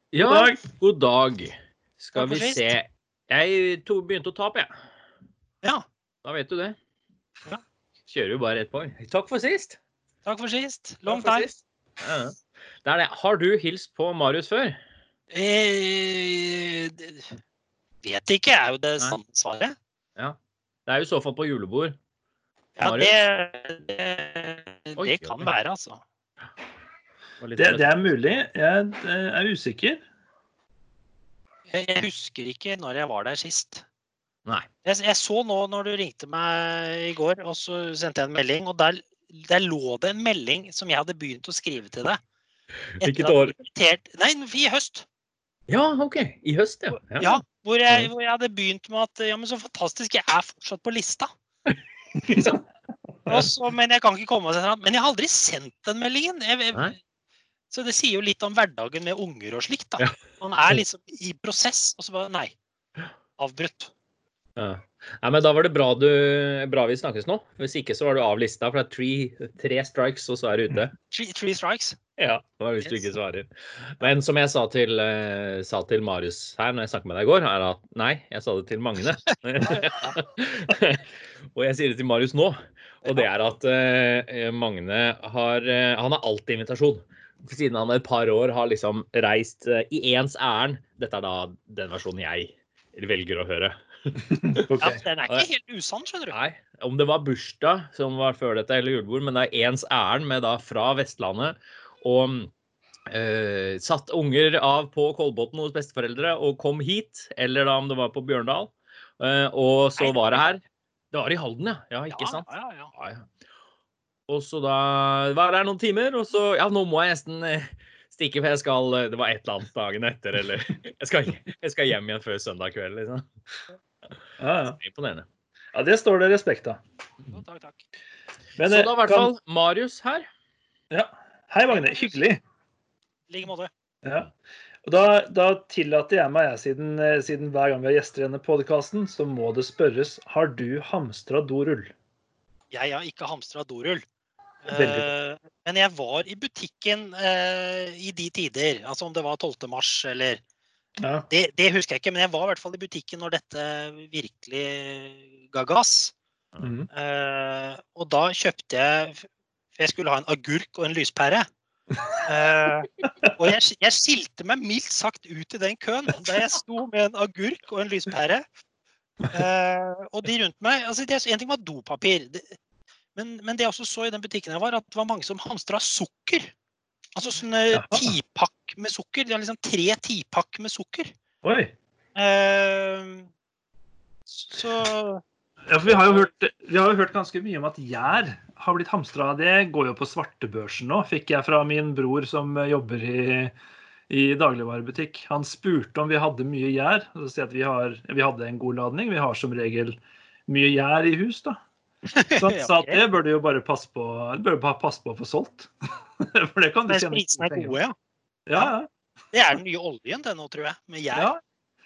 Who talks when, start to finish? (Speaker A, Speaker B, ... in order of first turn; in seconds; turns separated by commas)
Speaker A: 0.1-4.7, Speaker B: 0.2-0.6, Speaker C: 2.1-2.7, Speaker A: 6.2-6.8, Speaker A: 8.1-9.8, Speaker C: 10.2-11.5, Speaker A: 11.1-14.8, Speaker C: 15.3-17.3, Speaker C: 18.0-19.8, Speaker A: 20.2-22.0, Speaker C: 22.8-26.0, Speaker A: 22.8-23.1, Speaker A: 25.0-25.5, Speaker A: 27.4-28.1, Speaker B: 27.6-30.0, Speaker C: 31.7-33.8, Speaker C: 34.9-42.2, Speaker A: 43.0-43.5, Speaker C: 43.0-45.0, Speaker A: 45.7-48.1, Speaker C: 46.9-51.3, Speaker A: 52.3-52.6, Speaker C: 53.3-57.0, Speaker C: 57.7-62.6, Speaker C: 63.4-63.9, Speaker A: 64.6-71.0, Speaker C: 71.1-72.0, Speaker A: 72.2-94.7, Speaker C: 79.7-80.2, Speaker B: 94.4-95.0, Speaker C: 94.8-96.3, Speaker A: 96.3-102.5, Speaker A: 103.1-110.6, Speaker C: 110.0-110.5, Speaker A: 111.1-113.3, Speaker C: 112.1-112.9, Speaker A: 114.3-123.3, Speaker B: 124.4-124.8, Speaker A: 124.8-125.3, Speaker B: 125.7-126.8, Speaker C: 127.3-127.8, Speaker B: 128.6-129.3, Speaker A: 128.7-130.3, Speaker B: 130.9-132.4, Speaker C: 131.7-132.2, Speaker C: 133.3-133.7, Speaker B: 134.0-134.3, Speaker B: 134.8-141.9, Speaker C: 142.7-144.0, Speaker C: 144.7-150.4, Speaker B: 144.7-145.1, Speaker B: 151.0-151.3, Speaker C: 151.3-156.2, Speaker B: 156.6-156.9, Speaker C: 156.9-161.5, Speaker C: 162.2-168.4, Speaker B: 163.0-163.3, Speaker C: 169.3-172.6, Speaker C: 173.2-176.5, Speaker C: 177.2-181.1, Speaker B: 177.7-178.1, Speaker B: 181.4-181.7, Speaker C: 182.2-183.3, Speaker C: 184.3-185.2, Speaker B: 185.7-193.5, Speaker B: 194.1-201.6, Speaker C: 202.1-203.0, Speaker B: 202.4-207.8, Speaker C: 206.9-207.9, Speaker B: 208.5-208.9, Speaker C: 209.3-211.3, Speaker B: 211.1-211.4